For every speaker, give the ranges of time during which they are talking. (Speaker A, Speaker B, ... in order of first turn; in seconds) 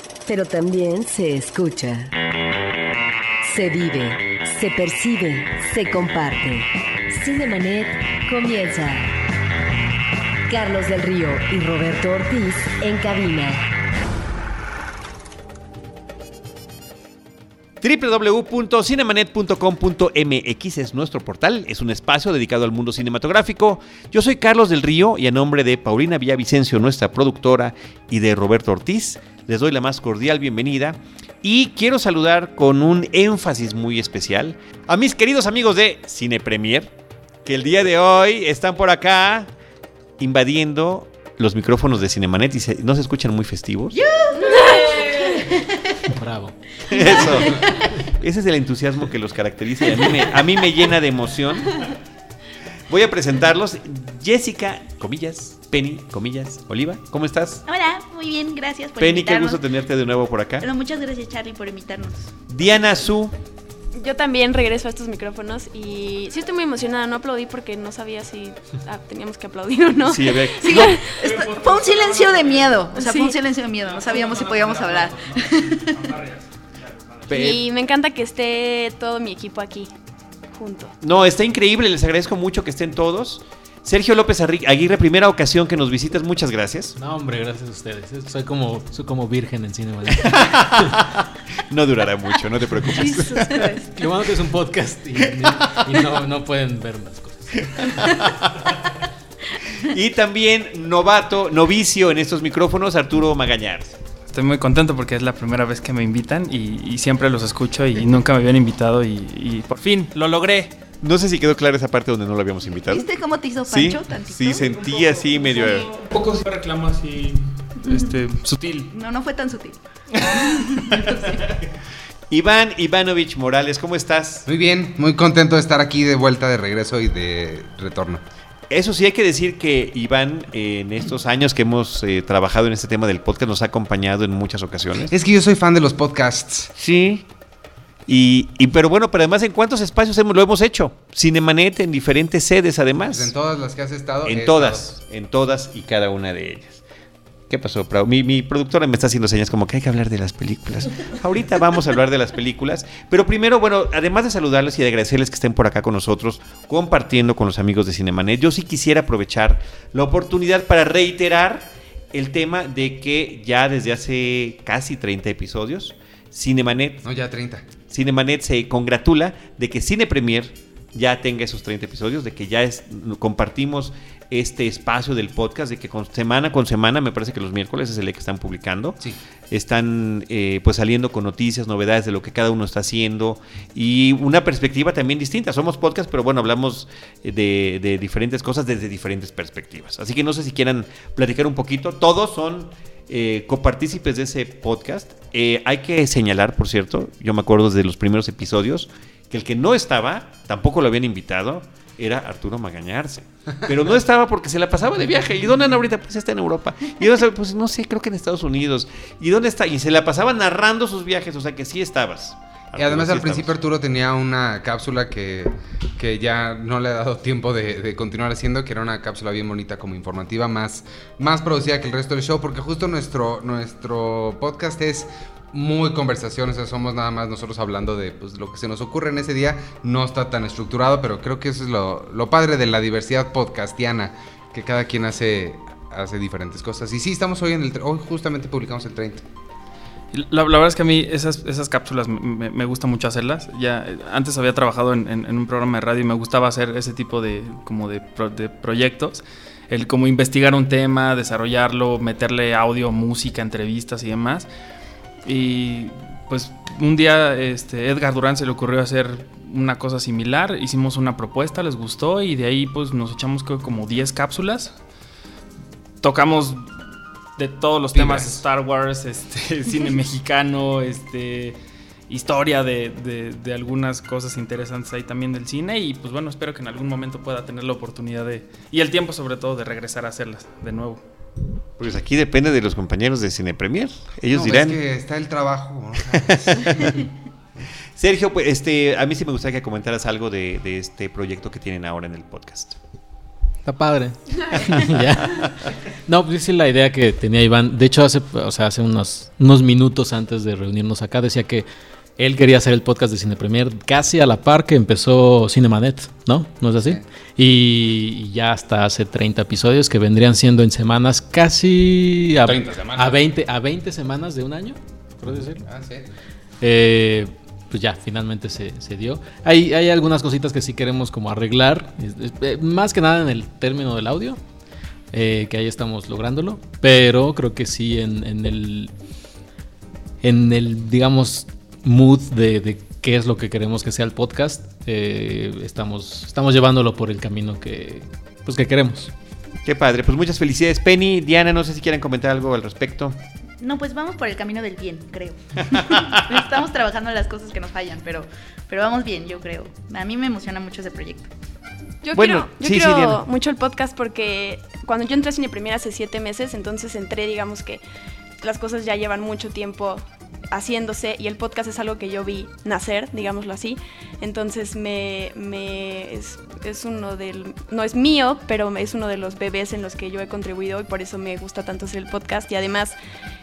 Speaker A: 0.2-2.1, 3.4-9.1, 10.5-13.7
Speaker B: 17.8-36.9, 37.5-39.5, 40.2-44.0, 46.9-51.8, 52.9-57.6, 59.0-60.7, 62.5-63.3, 70.0-71.0, 77.3-77.6, 81.0-87.0, 90.1-93.7, 95.2-96.0, 97.7-98.7, 99.7-104.0, 111.0-113.1, 113.7-115.9, 122.3-124.5, 128.7-135.1, 136.8-137.3, 138.1-143.3, 144.2-146.8, 147.5-167.0, 167.9-179.0, 179.5-213.5, 281.8-284.8, 286.2-287.0, 287.9-292.8, 294.5-295.5, 339.6-343.1, 345.7-346.2, 352.1-353.2
Speaker C: 44.0-46.1, 46.9-48.0, 57.7-59.6, 60.6-62.3, 70.6-76.2, 93.0-93.8, 112.8-114.8, 117.8-118.1, 118.9-121.4, 343.6-351.3
Speaker D: 44.4-45.3, 64.0-71.1, 73.0-73.4, 77.3-79.9, 80.5-80.9, 352.0-357.8, 358.4-372.9
Speaker E: 46.1-46.6, 87.0-91.0, 93.9-98.0, 293.6-301.6, 302.2-315.6, 316.6-324.4, 325.1-328.9, 330.2-339.1
Speaker F: 71.1-72.9, 73.8-77.4, 104.3-110.7, 114.8-118.9, 120.2-120.5, 240.1-254.5, 255.2-264.8, 266.0-266.7, 267.4-271.6, 272.1-281.0
Speaker G: 124.5-128.2, 135.1-136.7, 143.1-144.9, 167.0-167.6, 212.8-239.2, 284.3-287.0, 306.8-307.0, 312.4-313.2, 315.3-316.1